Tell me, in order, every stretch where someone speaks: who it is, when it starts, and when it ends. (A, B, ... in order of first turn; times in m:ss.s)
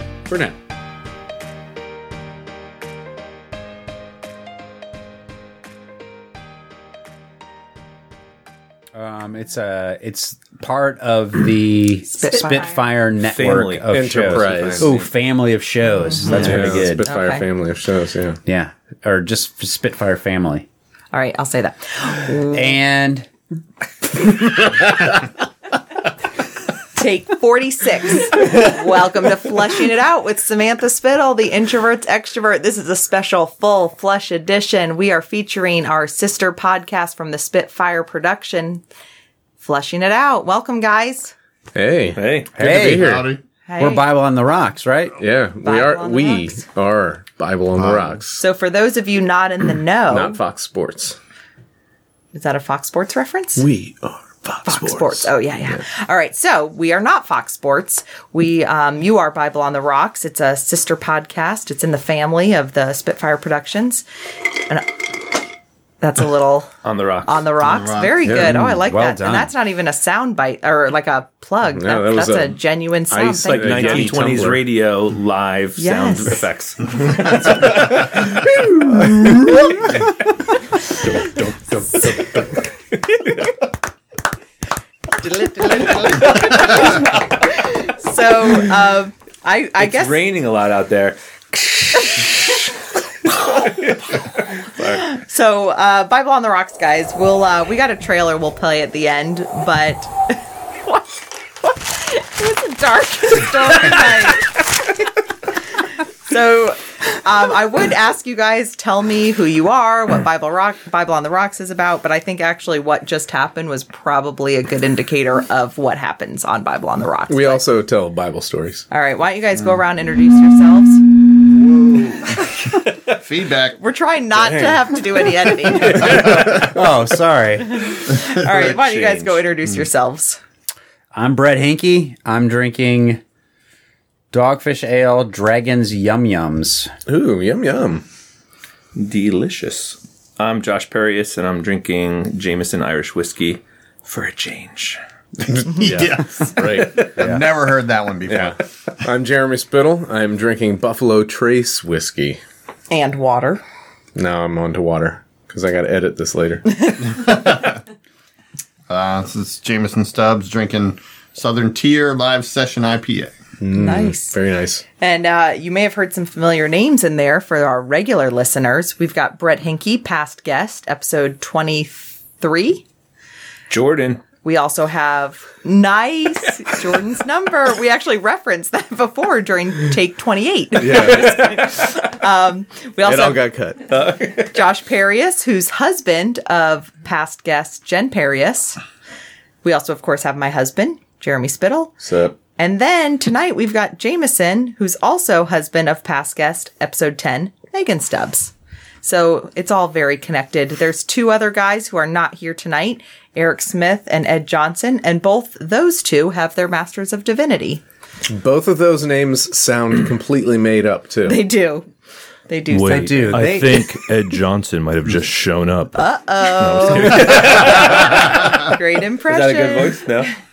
0:00.3-0:00.6 A
0:09.0-0:17.0 B
0:12.1-0:12.8 C
0:13.2-0:14.9 D
0:13.9-0:15.0 A
0:16.2-0:17.5 C
0:16.3-0:18.4 A
0:18.4-0:20.6 B
0:21.1-0:22.8 C
0:22.5-0:23.3 B
0:26.9-0:38.8 C
0:39.6-0:41.3 C
0:41.7-0:43.2 A
0:42.2-0:42.5 D
0:42.5-0:43.2 B
0:42.7-0:43.4 E
0:43.6-0:44.0 C
0:43.8-0:45.2 B
0:45.2-0:48.4 A
0:45.6-0:46.6 C
0:47.7-0:48.2 E
0:48.4-0:50.4 C
0:50.1-0:51.2 A
0:52.3-0:53.7 C
0:53.6-0:55.8 A
0:54.6-1:04.0 C
1:04.7-1:05.1 C
1:06.0-1:06.7 C
1:06.8-1:07.4 D
1:07.2-1:14.2 C
1:07.6-1:08.3 E
1:08.2-1:08.8 A
1:08.3-1:09.5 B
1:11.7-1:14.6 A
1:13.5-1:18.4 D
1:15.8-1:16.4 C
1:21.2-1:22.4 D
1:25.1-1:30.2 C
1:26.5-1:26.9 D
1:29.8-1:32.6 D
1:33.2-1:35.1 D
1:35.0-1:41.0 C
1:41.6-1:44.9 C
1:45.7-1:57.6 C
1:57.3-1:58.8 A
1:58.9-2:01.0 C
2:02.3-2:02.7 C
2:03.1-2:03.8 E
2:03.8-2:06.2 C
2:04.4-2:04.8 A
2:06.5-2:07.9 B
2:07.6-2:10.4 C
2:08.3-2:09.4 D
2:11.1-2:13.2 B
2:14.3-2:16.9 B
2:17.1-2:18.0 A
2:19.0-2:25.0 D
2:25.5-2:28.6 E
2:25.8-2:26.2 D
2:26.5-2:27.4 A
2:28.3-2:32.4 A
2:32.9-2:33.6 C
2:34.2-2:36.9 A
2:37.1-2:37.8 E
2:38.9-2:43.3 E
2:43.6-2:44.8 A
2:43.7-2:44.4 C
2:45.0-2:52.8 C
2:53.7-2:54.2 D
2:54.4-3:03.4 C
3:00.8-3:01.4 A
3:00.9-3:01.5 D
3:03.0-3:03.8 A
3:03.9-3:04.5 D
3:04.4-3:08.8 C
3:09.6-3:12.0 C
3:12.0-3:12.4 A
3:12.6-3:27.8 C
3:28.3-3:31.4 A
3:31.2-3:31.8 C
3:32.5-3:33.7 C
3:32.7-3:38.8 D
3:32.9-3:33.8 B
3:36.0-3:38.0 C
3:38.6-3:40.0 C
3:39.3-3:40.3 D